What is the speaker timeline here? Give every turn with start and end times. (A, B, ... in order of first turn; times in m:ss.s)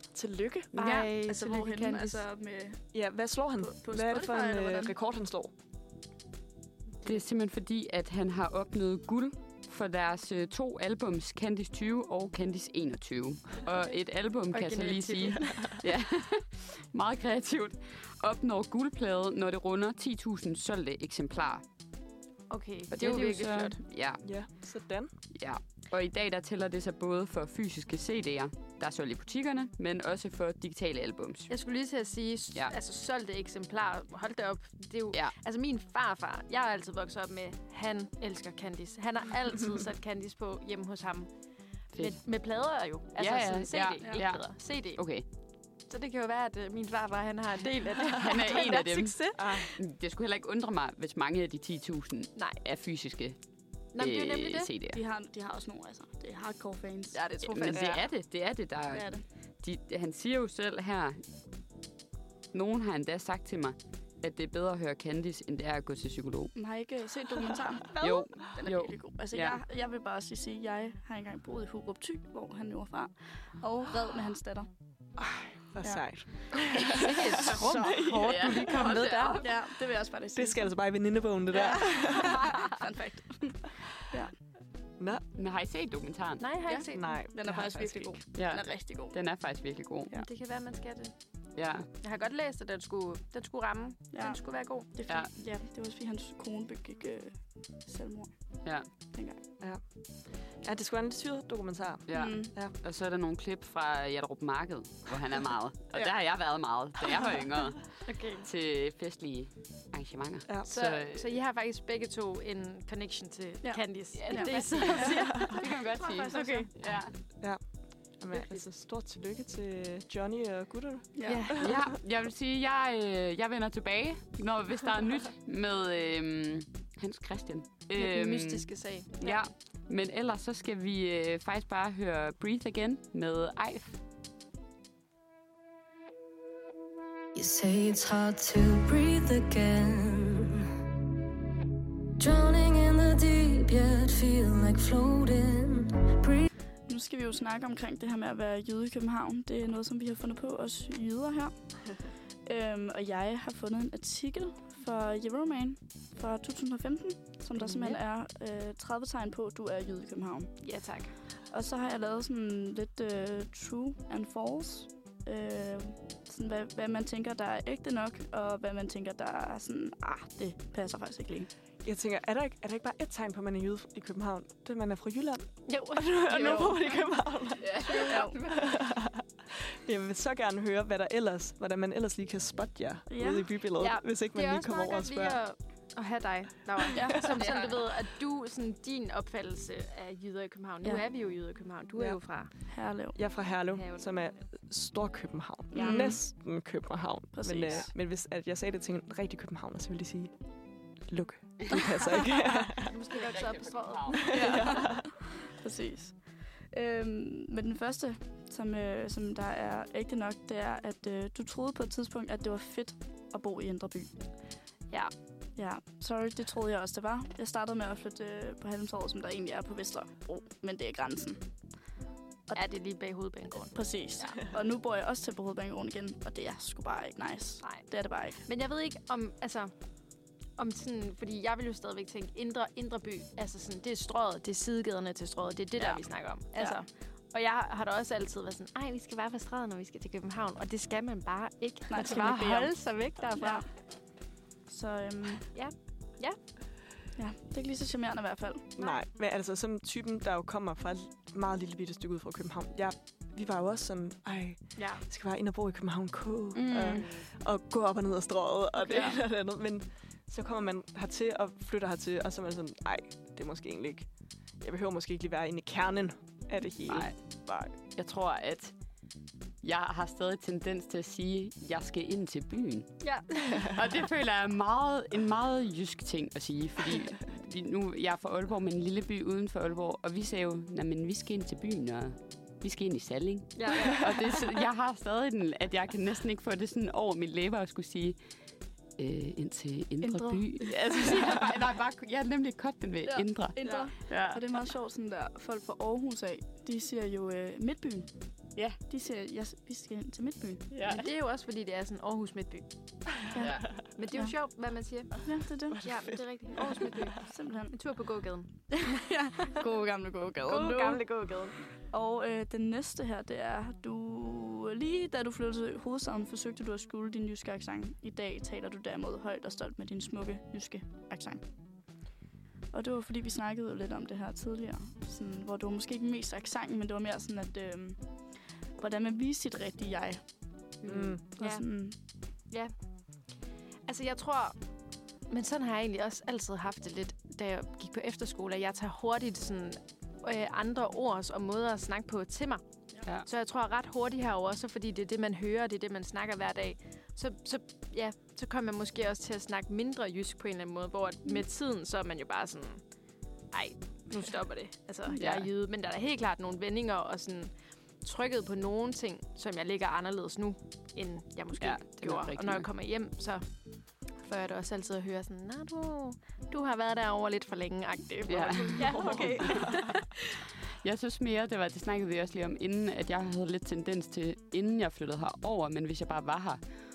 0:00.1-0:01.0 A
0:00.7-0:02.2 B
0:00.8-0:02.8 C
0:02.9-0:05.5 A
0:03.6-0:04.9 C
0:07.0-0:21.6 D
0:14.5-0:15.7 B
0:22.5-0:23.8 B
0:23.0-0:24.2 D
0:23.0-0:23.7 C
0:24.2-0:25.1 A
0:25.3-0:31.5 D
0:31.5-0:45.0 B
0:41.9-0:42.2 D
0:43.2-0:45.2 D
0:45.8-0:49.7 B
0:48.0-0:55.0 D
0:49.4-0:49.7 A
0:53.9-0:54.7 B
0:54.9-0:57.2 C
0:57.1-0:58.1 B
0:57.4-1:01.2 D
0:58.9-0:59.2 C
1:02.5-1:06.6 D
1:06.5-1:14.7 C
1:07.9-1:08.4 A
1:08.0-1:09.6 D
1:15.2-1:18.5 A
1:16.9-1:19.5 B
1:18.2-1:19.5 D
1:19.4-1:20.8 C
1:20.3-1:22.5 A
1:21.5-1:24.3 C
1:25.3-1:26.4 D
1:26.4-1:27.2 B
1:26.7-1:29.2 C
1:26.9-1:28.2 A
1:28.3-1:30.1 D
1:30.1-1:31.1 B
1:31.6-1:31.9 D
1:32.0-1:34.9 B
1:34.1-1:39.4 C
1:40.6-1:42.7 A
1:42.1-1:51.2 D
1:42.1-1:42.5 C
1:48.0-1:48.4 B
1:50.7-1:56.7 B
1:53.6-1:55.0 C
1:54.1-1:57.1 D
1:57.4-2:01.9 A
1:58.3-1:58.6 B
2:01.2-2:01.4 C
2:01.2-2:01.6 B
2:01.5-2:14.0 D
2:07.9-2:09.4 B
2:17.3-2:20.6 E
2:22.2-2:26.4 E
2:26.9-2:40.7 C
2:37.5-2:38.0 B
2:40.6-2:41.2 B
2:41.5-2:51.5 C
2:51.8-3:05.4 A
2:55.7-2:57.1 B
2:57.6-2:58.4 D
2:57.8-2:58.5 B
2:57.9-2:58.4 C
3:03.1-3:03.5 C
3:03.8-3:12.5 B
3:06.9-3:07.2 C
3:07.3-3:07.7 D
3:12.0-3:22.9 A
3:12.7-3:13.2 C
3:13.7-3:14.2 B
3:15.7-3:16.2 B
3:15.7-3:16.2 C
3:17.3-3:17.9 C
3:22.8-3:24.4 B
3:23.1-3:24.7 D
3:24.2-3:25.1 A
3:24.3-3:34.1 C
3:35.5-3:41.8 C
3:42.5-3:42.8 C
3:42.5-3:44.3 B
3:43.7-3:48.4 C
3:47.6-4:03.7 B
4:01.9-4:03.8 C
4:04.7-4:05.5 C
4:05.5-4:06.4 B
4:07.2-4:08.7 C
4:08.8-4:09.0 B
4:08.8-4:27.7 A
4:14.8-4:15.0 B
4:16.5-4:17.1 B
4:16.9-4:17.2 D
4:18.9-4:19.1 C
4:26.9-4:27.2 D
4:27.9-4:28.7 D
4:29.6-4:33.0 D
4:33.0-4:33.6 B
4:33.6-4:48.2 D
4:43.5-4:44.4 B
4:49.0-4:54.4 D
4:50.0-4:51.2 C
4:53.0-5:00.7 C
4:53.6-4:53.9 B
5:00.7-5:01.0 D
5:00.8-5:09.0 B
5:03.3-5:04.3 C
5:03.4-5:03.7 D
5:05.2-5:05.9 C
5:05.7-5:07.0 A
5:07.2-5:07.8 C
5:08.9-5:11.0 C
5:10.5-5:11.6 B
5:11.9-5:22.0 C
5:22.7-5:30.5 C
5:30.8-5:32.7 B
5:30.8-5:31.2 A
5:31.3-5:32.0 C
5:33.9-5:34.6 B
5:35.2-5:42.6 B
5:43.2-5:52.8 B
5:53.5-6:10.2 B
5:55.1-5:55.5 D
6:01.6-6:02.7 D
6:08.3-6:09.7 D
6:08.8-6:09.9 A
6:10.8-6:16.6 D